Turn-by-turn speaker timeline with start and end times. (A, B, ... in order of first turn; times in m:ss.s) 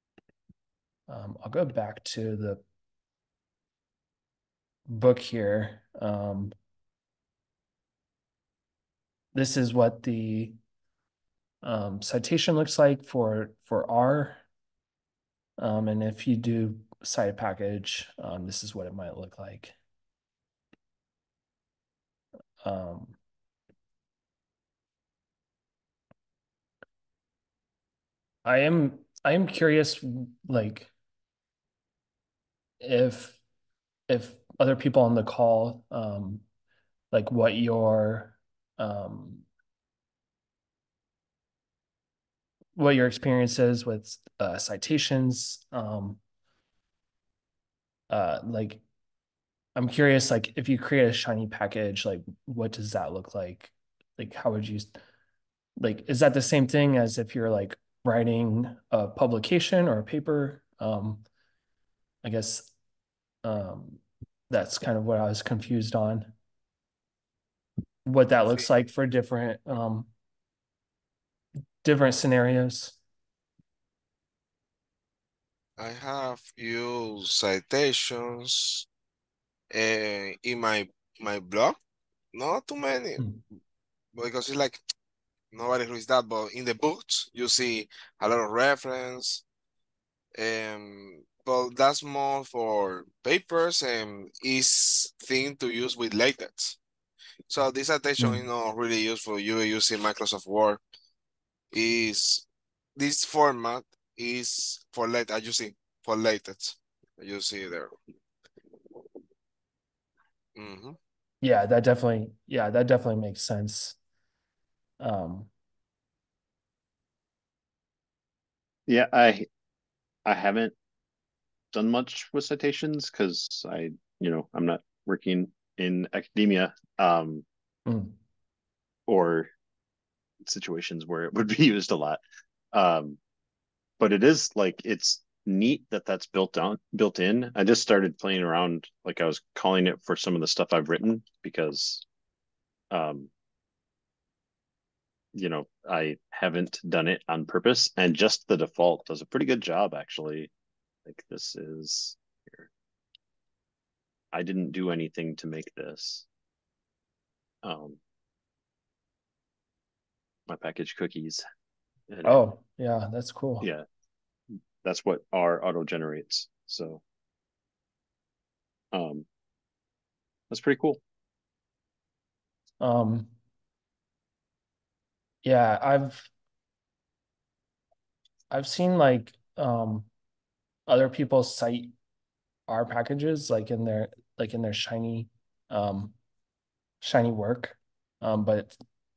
0:01.1-0:02.6 A
0:04.9-0:06.6 A
0:09.3-0:10.6 A
0:11.6-0:14.4 A
0:15.6-0:19.8 A
0:22.6-0:23.2 A
0:28.4-0:30.9 A
0:32.8-0:33.4 A
0:34.1-0:36.4 A
0:37.1-0:39.4 A
0:42.8-0:46.2 A
0:48.1-0:48.8 A
0:49.8-0:54.9 A
0:55.8-1:01.2 A
1:02.2-1:02.7 A
1:03.4-1:06.3 A
1:08.0-1:10.1 A
1:11.8-1:13.0 A
1:15.8-1:18.9 B
1:19.7-1:21.8 B
1:22.3-1:23.2 B
1:24.2-1:24.8 B
1:25.5-1:29.4 B
1:30.4-1:36.8 B
1:37.5-1:40.8 B
1:38.2-1:38.5 A
1:41.7-1:42.4 B
1:43.0-1:47.9 B
1:50.6-1:51.0 B
1:51.4-1:54.0 A
1:55.0-1:55.5 A
1:58.9-1:59.5 C
2:00.2-2:00.8 C
2:01.7-2:07.4 C
2:07.9-2:08.2 A
2:09.1-2:09.5 C
2:10.4-2:13.2 C
2:14.0-2:22.0 C
2:22.9-2:23.3 C
2:25.3-2:30.5 C
2:31.1-2:32.7 C
2:34.3-2:36.3 C
2:37.6-2:38.0 C
2:40.5-2:41.4 C
2:42.1-2:42.4 C
2:42.2-2:43.7 A
2:43.6-2:43.9 C
2:44.8-2:47.0 C
2:48.9-2:49.3 C
2:50.5-2:51.0 C
2:52.8-2:53.3 A
2:55.4-2:56.3 A
2:58.5-3:00.1 A
3:00.9-3:01.9 A
3:02.7-3:06.1 A
3:07.0-3:08.8 A